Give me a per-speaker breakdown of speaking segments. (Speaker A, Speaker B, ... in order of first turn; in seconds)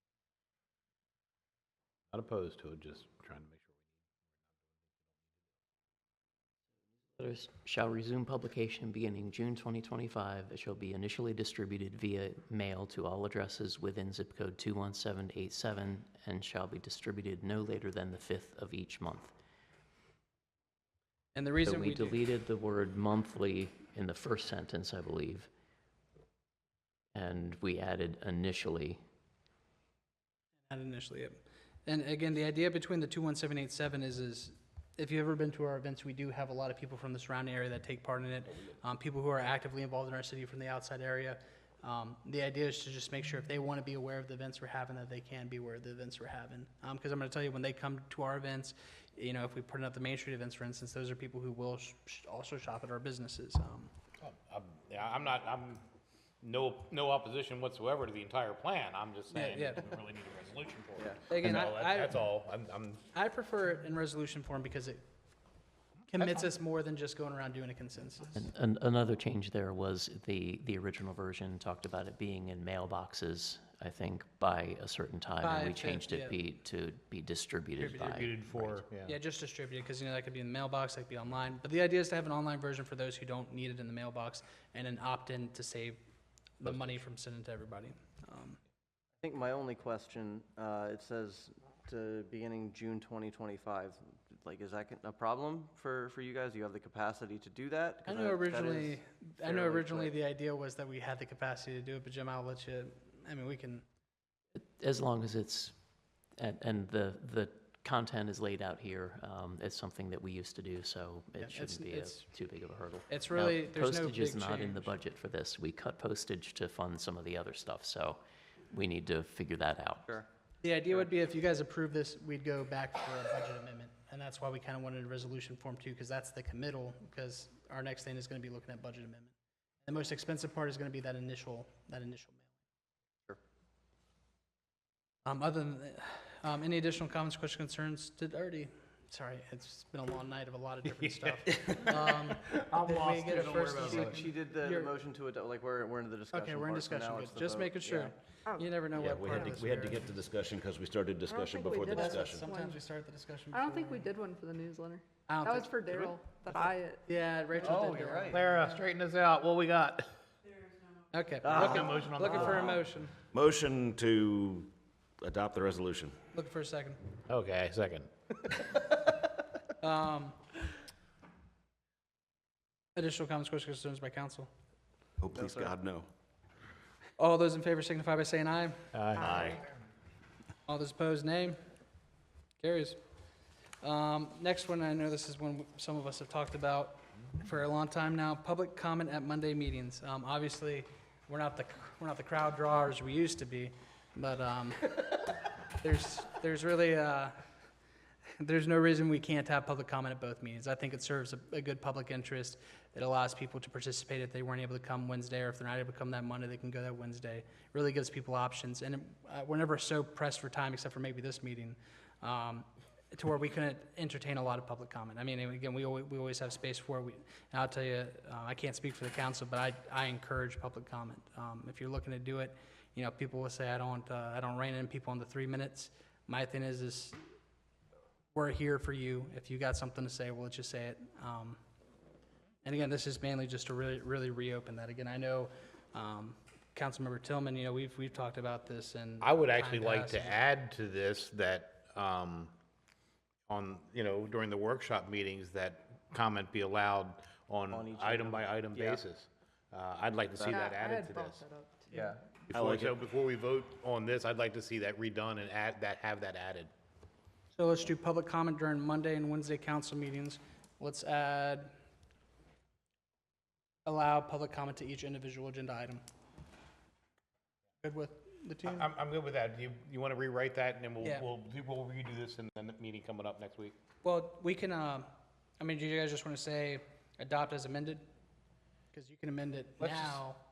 Speaker A: 2.1-3.7, 54.2-55.8, 56.4-63.0, 77.9-79.2, 86.6-86.9, 140.9-144.2, 158.3-160.1, 161.5-162.8, 167.3-168.1, 178.9-179.6, 239.2-242.5, 243.5-251.4, 252.5-256.7, 268.6-273.7, 279.8-280.2
Speaker B: 7.2-19.3, 21.6-25.5, 27.1-29.0, 68.3-78.8, 104.5-105.7, 106.4-120.2
Speaker C: 21.3-22.2, 30.7-53.9, 59.3-59.8, 61.3-62.2, 63.1-65.0, 66.1-68.4, 75.4-76.4, 77.8-78.2, 79.0-86.0, 86.6-88.6, 98.0-103.8, 111.4-112.3, 113.1-114.9, 120.6-129.3, 129.8-132.5, 135.2-144.9, 146.3-150.1, 151.9-154.1, 155.3-158.5, 161.1-163.1, 166.3-167.0, 169.8-170.4, 172.9-174.5, 177.2-178.9, 180.7-181.6, 182.6-183.0, 183.8-197.4, 198.4-227.2, 228.3-231.6, 232.6-240.4, 257.6-261.7, 263.8-266.0, 267.8-268.9, 271.0-271.3, 274.0-275.1, 275.6-278.0, 278.9-280.4
Speaker D: 89.2-100.1, 143.7-148.1, 157.6-158.4, 175.3-175.7, 247.7-249.0, 251.9-252.2
Speaker E: 148.4-148.8, 151.3-152.8, 153.5-157.0, 157.6-158.3, 250.4-252.2
Speaker F: 148.9-152.5, 161.5-161.7, 163.3-166.2, 175.2-176.1, 179.2-179.6, 252.5-253.0